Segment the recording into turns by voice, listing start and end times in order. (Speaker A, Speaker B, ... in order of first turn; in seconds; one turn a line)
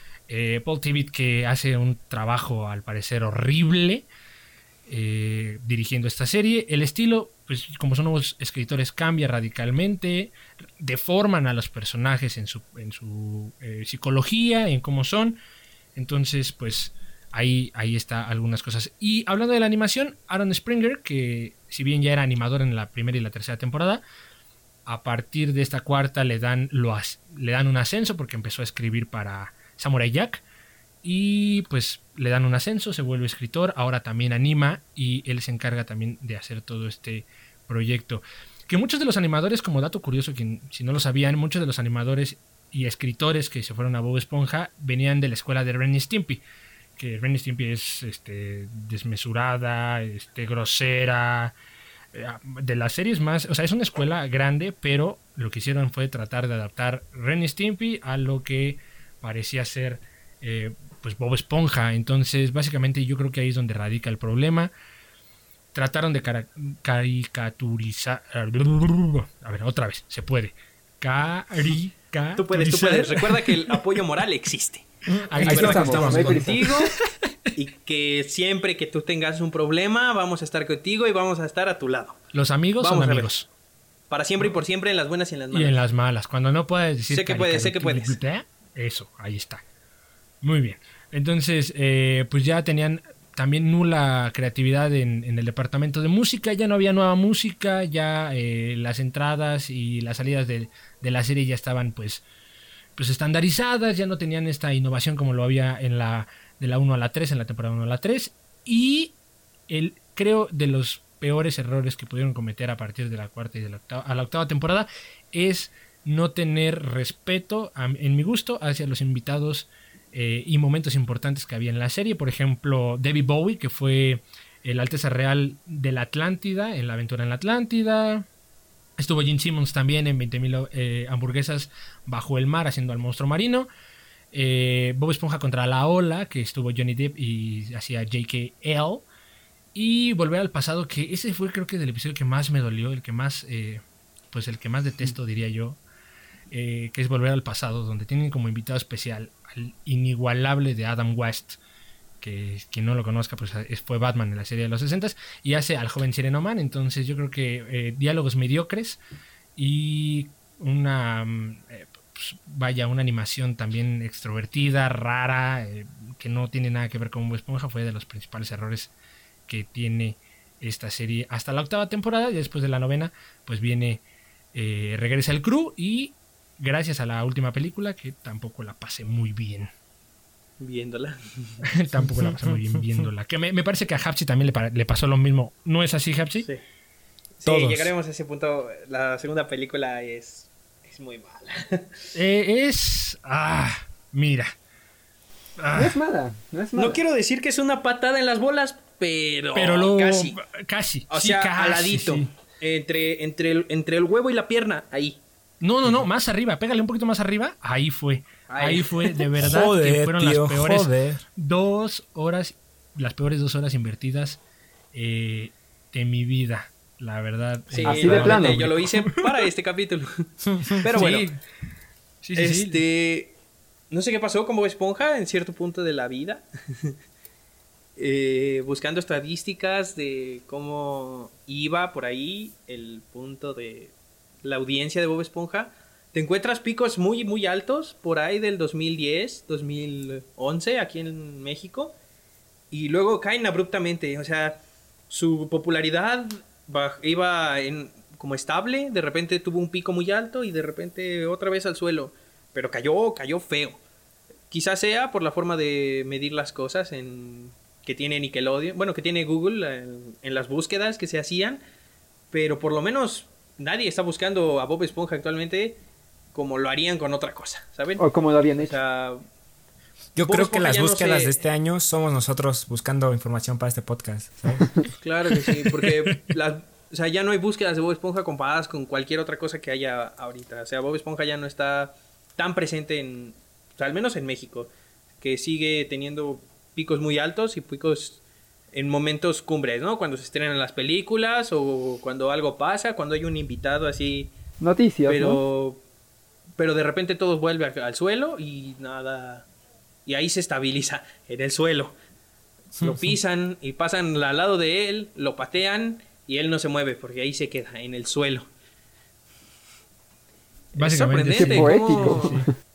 Speaker A: 0.3-4.0
Speaker A: 4.9-15.4
Speaker A: 15.9-24.0
Speaker A: 24.9-30.4
Speaker A: 31.0-46.4
Speaker A: 47.0-51.5
Speaker A: 52.1-64.7
Speaker A: 65.7-73.8
Speaker B: 72.4-74.8
Speaker C: 75.1-76.6
Speaker A: 75.3-76.4
Speaker B: 75.4-77.0
Speaker D: 75.4-76.7
Speaker B: 77.5-82.2
Speaker A: 82.3-83.5
Speaker B: 82.8-83.3
Speaker B: 84.1-85.8
Speaker A: 85.5-89.6
Speaker B: 87.1-88.2
Speaker A: 90.4-102.2
Speaker A: 103.0-109.1
Speaker A: 109.7-128.2
Speaker A: 129.0-133.7
Speaker A: 134.3-139.1
Speaker A: 139.7-143.8
Speaker A: 144.3-145.8
Speaker A: 146.5-151.6
Speaker A: 152.2-159.0
Speaker A: 159.6-168.9
Speaker A: 169.5-174.0
Speaker A: 174.5-179.7
Speaker B: 180.6-181.6
Speaker A: 181.6-186.5
Speaker C: 182.1-182.6
Speaker B: 187.4-192.1
Speaker A: 187.4-187.9
Speaker A: 192.1-194.5
Speaker A: 195.6-196.0
Speaker D: 195.7-197.0
Speaker B: 196.7-200.3
Speaker A: 199.5-202.3
Speaker B: 201.1-205.2
Speaker A: 205.6-214.4
Speaker B: 208.5-209.2
Speaker C: 209.4-211.2
Speaker A: 214.9-219.5
Speaker B: 217.7-221.3
Speaker D: 217.8-218.6
Speaker C: 220.5-220.8
Speaker A: 220.8-221.4
Speaker A: 222.2-222.8
Speaker B: 222.3-223.3
Speaker B: 223.9-226.9
Speaker B: 228.0-241.9
Speaker B: 242.7-253.8
Speaker B: 254.5-261.6
Speaker B: 262.3-265.8
Speaker B: 266.3-268.0
Speaker D: 268.0-268.8
Speaker B: 268.6-269.2
Speaker C: 270.1-274.7
Speaker B: 270.3-271.4
Speaker B: 275.0-284.7
Speaker B: 285.2-288.2
Speaker B: 288.7-294.3
Speaker D: 294.6-295.4
Speaker B: 295.1-295.8
Speaker B: 296.6-299.5
Speaker B: 300.1-301.9
Speaker B: 302.8-308.5
Speaker B: 310.7-312.4
Speaker A: 310.8-312.5
Speaker D: 311.3-312.5